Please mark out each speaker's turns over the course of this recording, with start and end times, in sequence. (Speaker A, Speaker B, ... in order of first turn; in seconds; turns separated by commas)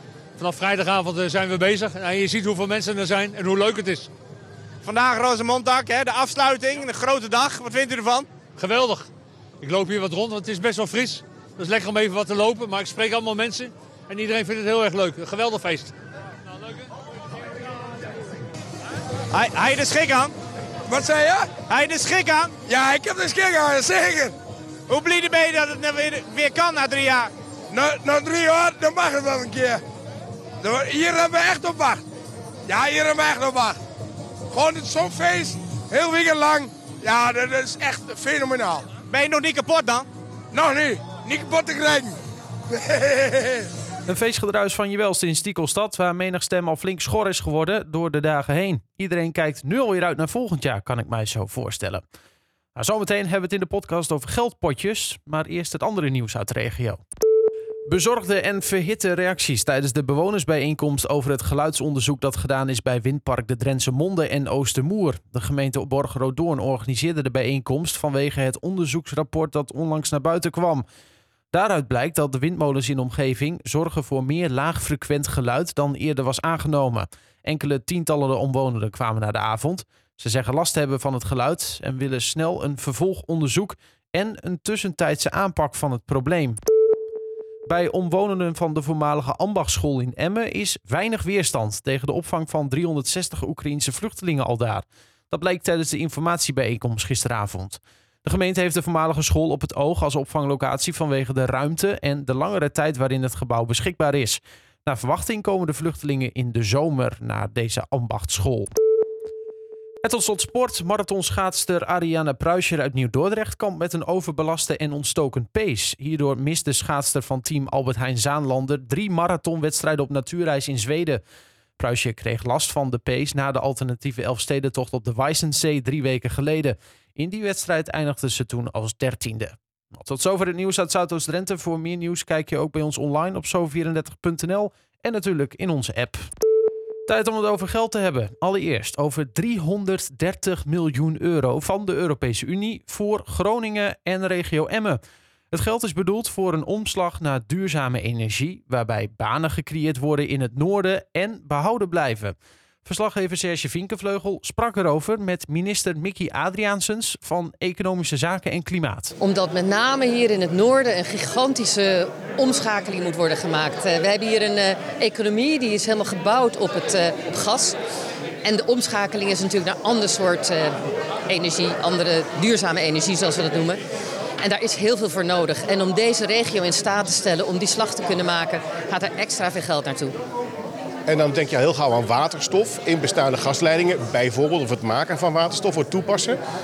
Speaker A: 0.4-4.1, Speaker B: 4.8-8.3, Speaker A: 8.6-9.1, Speaker A: 9.6-15.9, Speaker B: 19.3-20.3, Speaker C: 20.9-21.5, Speaker B: 21.7-22.5, Speaker C: 22.7-24.3, Speaker B: 24.9-27.3, Speaker C: 27.7-29.8, Speaker C: 30.6-32.0, Speaker C: 32.7-33.8, Speaker C: 34.5-38.9, Speaker B: 39.1-40.1, Speaker C: 40.5-42.1, Speaker C: 42.8-43.6, Speaker D: 44.1-52.0, Speaker D: 52.8-57.0, Speaker D: 57.9-70.8, Speaker D: 71.5-86.6, Speaker D: 87.7-108.7, Speaker D: 110.0-121.2, Speaker D: 121.8-136.3, Speaker D: 137.1-145.0, Speaker D: 145.5-159.2, Speaker E: 159.2-167.8, Speaker E: 168.4-170.8, Speaker E: 171.3-173.8, Speaker E: 174.4-180.2, Speaker F: 181.1-186.4